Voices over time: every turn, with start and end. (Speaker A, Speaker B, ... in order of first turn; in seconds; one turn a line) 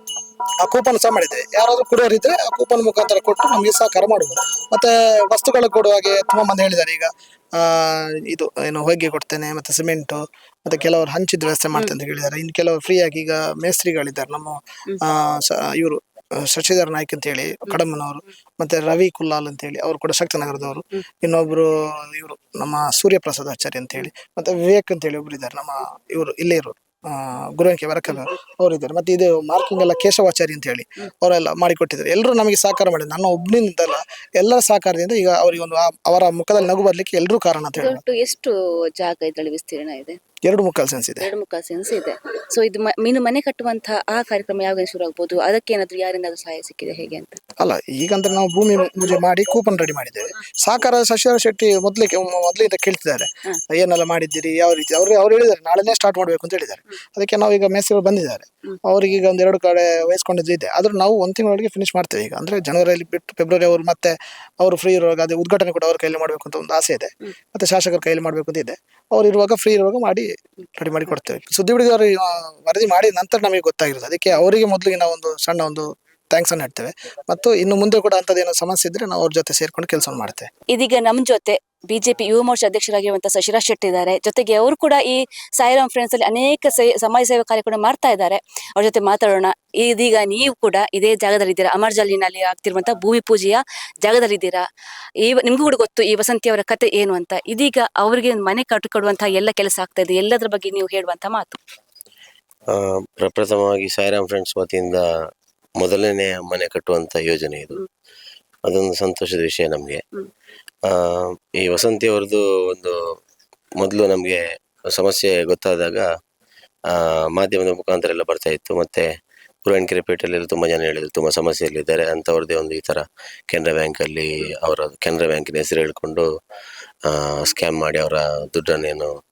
Speaker A: 0.6-38.0
Speaker B: 37.8-40.2
Speaker A: 40.4-41.3
Speaker B: 41.2-47.4
Speaker A: 47.6-80.5
Speaker B: 80.7-94.6
Speaker B: 95.2-101.6
Speaker C: 102.7-105.3
Speaker C: 105.8-107.8
Speaker C: 108.6-110.0
Speaker C: 110.8-113.0
Speaker C: 113.8-116.1
Speaker C: 116.9-119.1
Speaker C: 119.6-126.3
Speaker C: 127.1-129.2